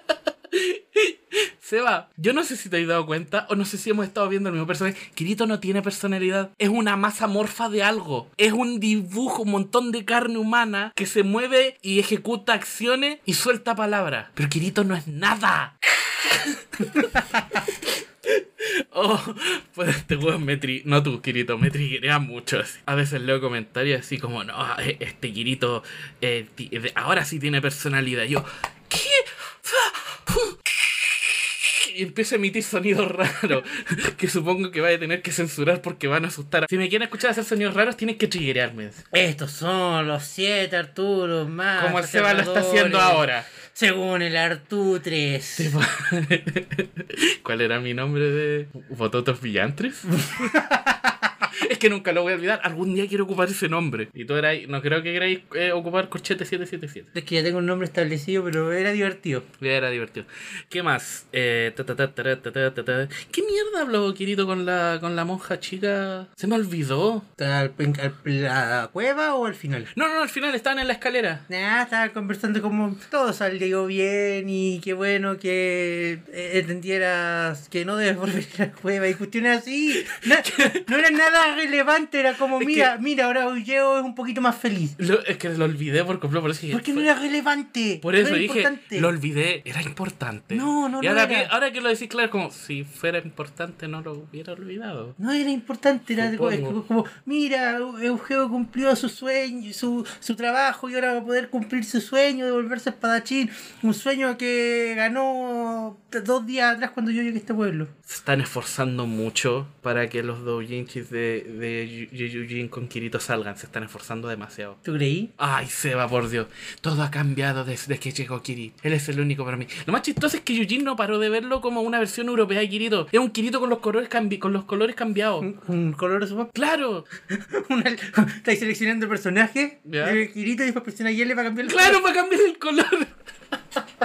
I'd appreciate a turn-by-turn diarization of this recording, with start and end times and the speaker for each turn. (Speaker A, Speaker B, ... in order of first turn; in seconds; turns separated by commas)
Speaker A: 0.5-39.0, Speaker B: 17.1-17.6, Speaker B: 39.1-45.8, Speaker A: 41.8-43.5, Speaker A: 45.5-50.5, Speaker B: 50.1-51.3, Speaker A: 51.5-57.1, Speaker B: 57.1-59.5, Speaker A: 59.6-67.2, Speaker B: 67.4-69.9, Speaker A: 69.9-71.4, Speaker B: 71.5-85.0, Speaker A: 80.0-80.8, Speaker A: 82.6-82.9, Speaker A: 85.0-87.1, Speaker B: 86.7-89.1, Speaker A: 88.0-95.2, Speaker B: 90.5-91.5, Speaker B: 95.2-107.9, Speaker A: 96.2-96.8, Speaker A: 108.1-114.8, Speaker B: 114.8-115.3, Speaker A: 115.4-125.5, Speaker B: 125.4-126.5, Speaker A: 126.5-127.1, Speaker B: 127.3-132.0, Speaker A: 129.8-130.2, Speaker A: 131.7-133.1